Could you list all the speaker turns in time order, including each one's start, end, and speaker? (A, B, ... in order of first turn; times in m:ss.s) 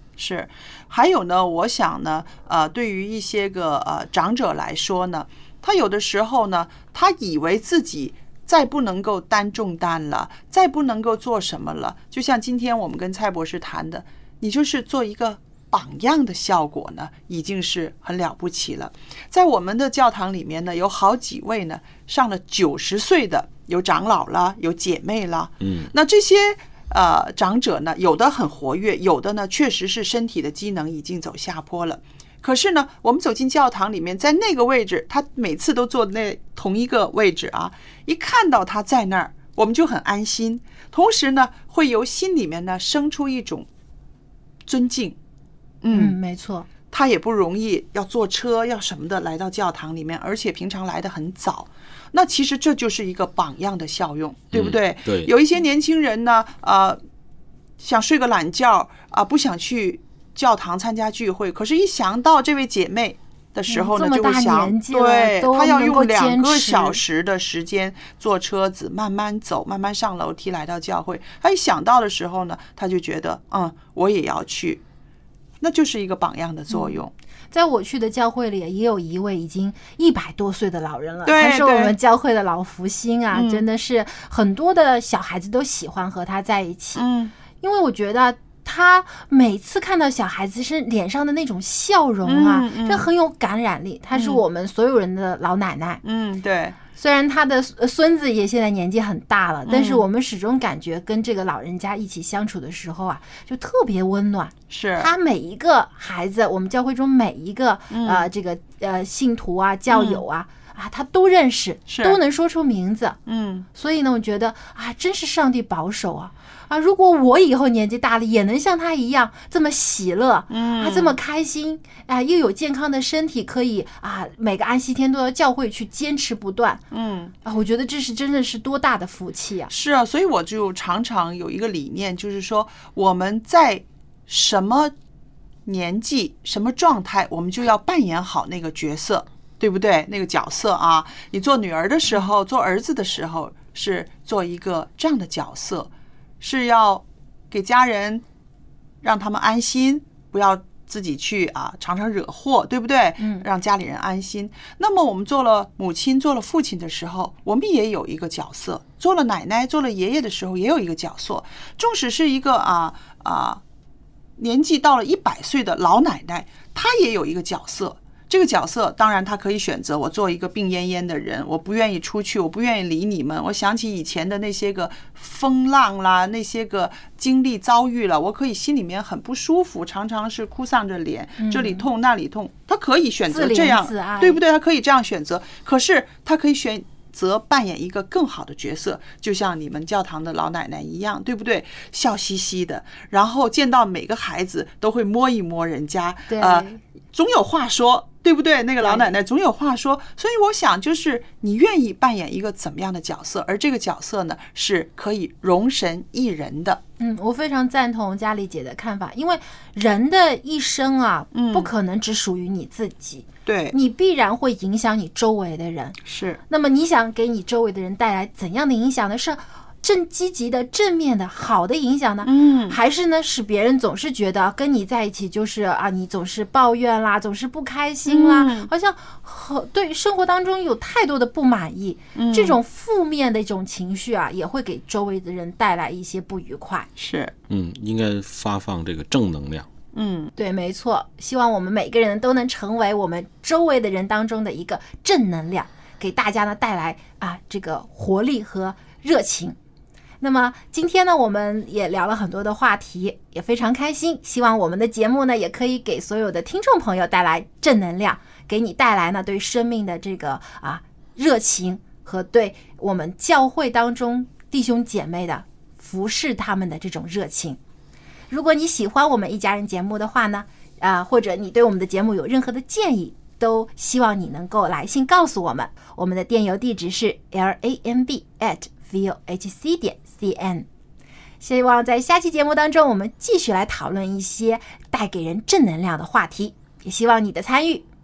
0:00.2-0:43.7 A
0:25.6-0:25.9 B
0:44.7-0:45.2 A
0:45.8-0:46.2 A
0:45.9-0:46.7 C
0:46.9-0:57.0 A
0:54.5-0:55.3 B
0:57.8-1:14.8 A
1:03.7-1:07.0 C
1:15.6-1:17.1 A
1:16.7-1:17.0 C
1:17.5-1:27.0 C
1:21.3-1:22.0 A
1:23.3-1:23.6 A
1:27.0-1:27.3 A
1:27.6-1:36.0 C
1:32.2-1:33.1 A
1:34.2-1:34.4 A
1:36.0-1:36.8 A
1:36.9-1:53.2 C
1:39.7-1:40.0 A
1:44.7-1:45.1 A
1:47.9-1:48.3 A
1:49.9-1:50.2 A
1:51.9-1:52.2 A
1:53.3-1:53.7 A
1:53.7-2:06.8 C
2:00.5-2:01.2 A
2:06.9-2:07.3 A
2:07.4-2:09.7 C
2:09.7-2:14.9 A
2:15.6-2:28.2 A
2:29.0-2:43.6 A
2:33.2-2:33.4 C
2:44.4-3:26.8 A
3:01.4-3:01.9 C
3:03.3-3:04.4 C
3:16.3-3:16.8 C
3:18.8-3:19.1 C
3:27.0-3:56.9 C
3:31.3-3:31.7 A
3:33.5-3:33.8 A
3:36.0-3:36.4 A
3:42.2-3:42.8 A
3:48.1-3:48.7 A
3:52.2-3:52.6 A
3:57.0-3:57.3 A
3:57.5-3:59.7 B
3:59.9-4:00.3 A
4:00.4-4:09.6 C
4:10.2-4:27.6 C
4:28.3-4:40.7 C
4:41.4-4:47.8 C